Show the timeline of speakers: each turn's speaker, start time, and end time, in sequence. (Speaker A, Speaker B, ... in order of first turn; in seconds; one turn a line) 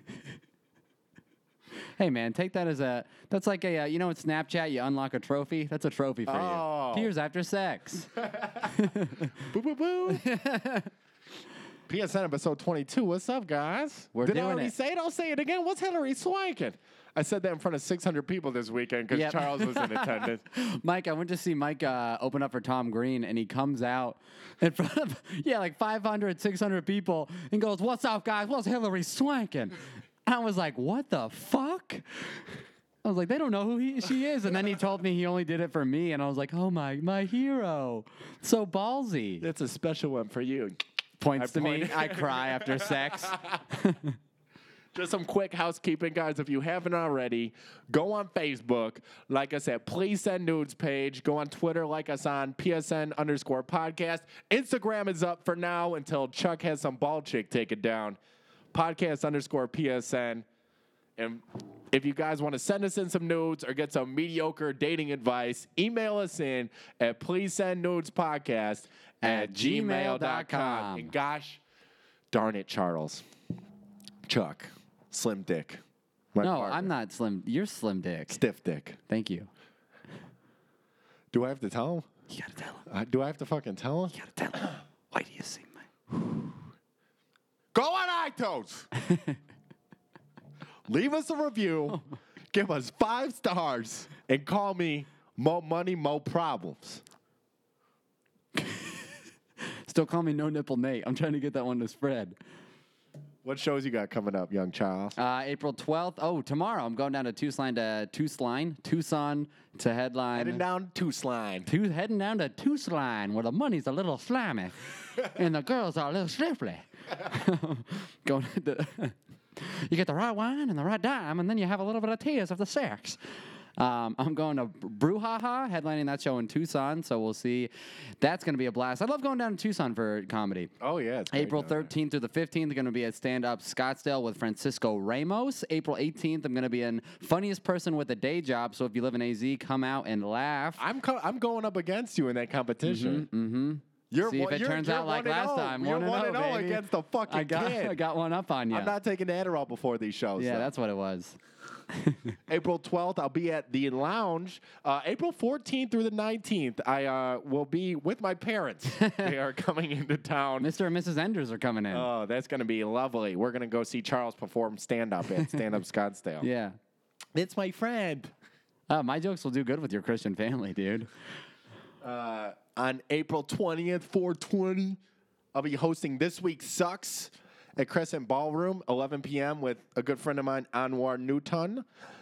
Speaker A: 2.0-9.4
Speaker B: 6.2-7.1
Speaker B: 8.2-8.7
Speaker B: 9.4-10.3
Speaker A: 10.1-10.9
Speaker B: 11.9-20.4
Speaker A: 14.1-14.7
Speaker A: 19.1-32.4
Speaker A: 33.0-39.4
Speaker B: 39.4-40.8
Speaker A: 41.2-44.2
Speaker B: 41.4-43.6
Speaker B: 44.9-58.2
Speaker B: 58.7-60.5
Speaker B: 61.2-71.6
Speaker A: 69.2-71.1
Speaker B: 72.3-73.2
Speaker B: 74.2-75.8
Speaker B: 76.3-76.9
Speaker A: 76.4-78.4
Speaker B: 78.3-79.0
Speaker A: 79.1-79.5
Speaker B: 81.3-82.1
Speaker A: 82.3-82.8
Speaker B: 82.8-84.7
Speaker A: 84.1-85.8
Speaker B: 87.7-88.9
Speaker A: 89.0-89.4
Speaker B: 90.9-97.0
Speaker A: 98.5-99.0
Speaker A: 99.8-102.3
Speaker B: 103.4-105.2
Speaker A: 105.2-110.6
Speaker B: 110.3-111.7
Speaker A: 111.7-123.2
Speaker A: 123.8-130.7
Speaker B: 130.8-131.9
Speaker A: 131.3-140.8
Speaker B: 140.8-143.3
Speaker A: 142.8-148.9
Speaker B: 144.1-147.9
Speaker B: 148.7-150.7
Speaker A: 150.4-151.4
Speaker A: 151.9-152.4
Speaker B: 152.5-160.7
Speaker A: 158.9-159.3
Speaker A: 160.6-162.1
Speaker B: 161.9-166.5
Speaker A: 165.3-165.6
Speaker A: 166.4-166.8
Speaker B: 167.3-168.3
Speaker A: 168.9-171.1
Speaker B: 172.0-175.0
Speaker B: 175.5-181.8